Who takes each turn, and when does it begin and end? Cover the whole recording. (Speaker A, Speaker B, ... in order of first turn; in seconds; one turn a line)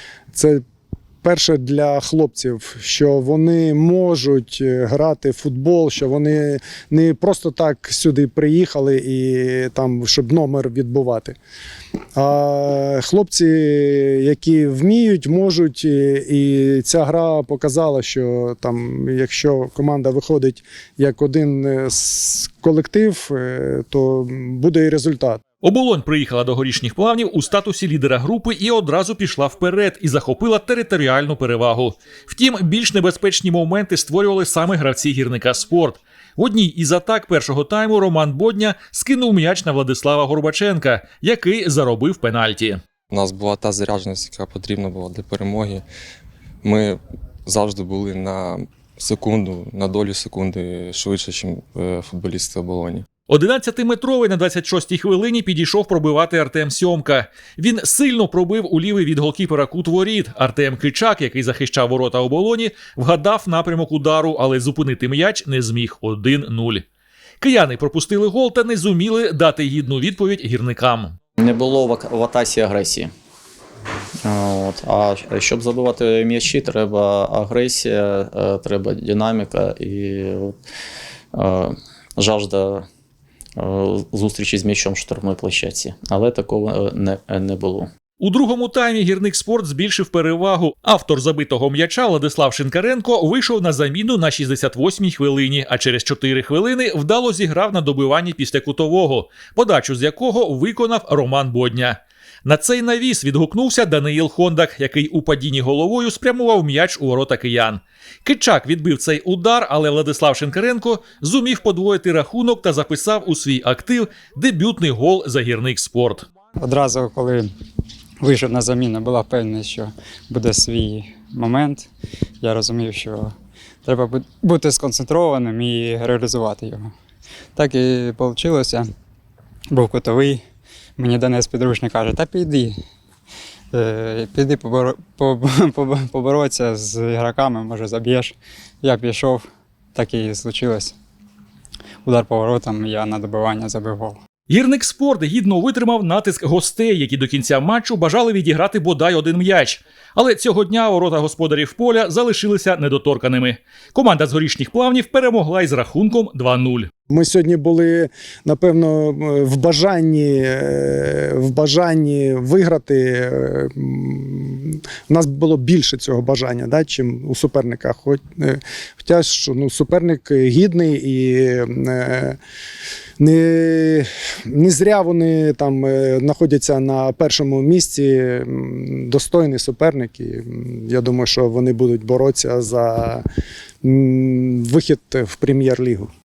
Speaker A: 0.3-0.6
Speaker A: 1.2-11.4
Speaker A: 12.2-25.4
Speaker B: 25.6-42.8
Speaker C: 43.1-45.9
Speaker C: 46.6-53.1
Speaker B: 53.3-66.9
Speaker B: 67.4-71.2
Speaker D: 71.4-73.1
Speaker D: 74.2-80.6
Speaker D: 81.3-82.9
Speaker D: 83.6-87.9
Speaker B: 88.2-116.3
Speaker E: 116.6-117.5
Speaker E: 118.2-121.9
Speaker E: 122.4-123.3
Speaker E: 123.8-126.9
Speaker E: 127.6-128.9
Speaker E: 129.7-130.4
Speaker E: 131.0-132.8
Speaker E: 133.7-140.9
Speaker E: 142.1-144.2
Speaker B: 144.5-156.9
Speaker A: 157.1-172.4
Speaker A: 173.2-183.2
Speaker A: 183.8-186.1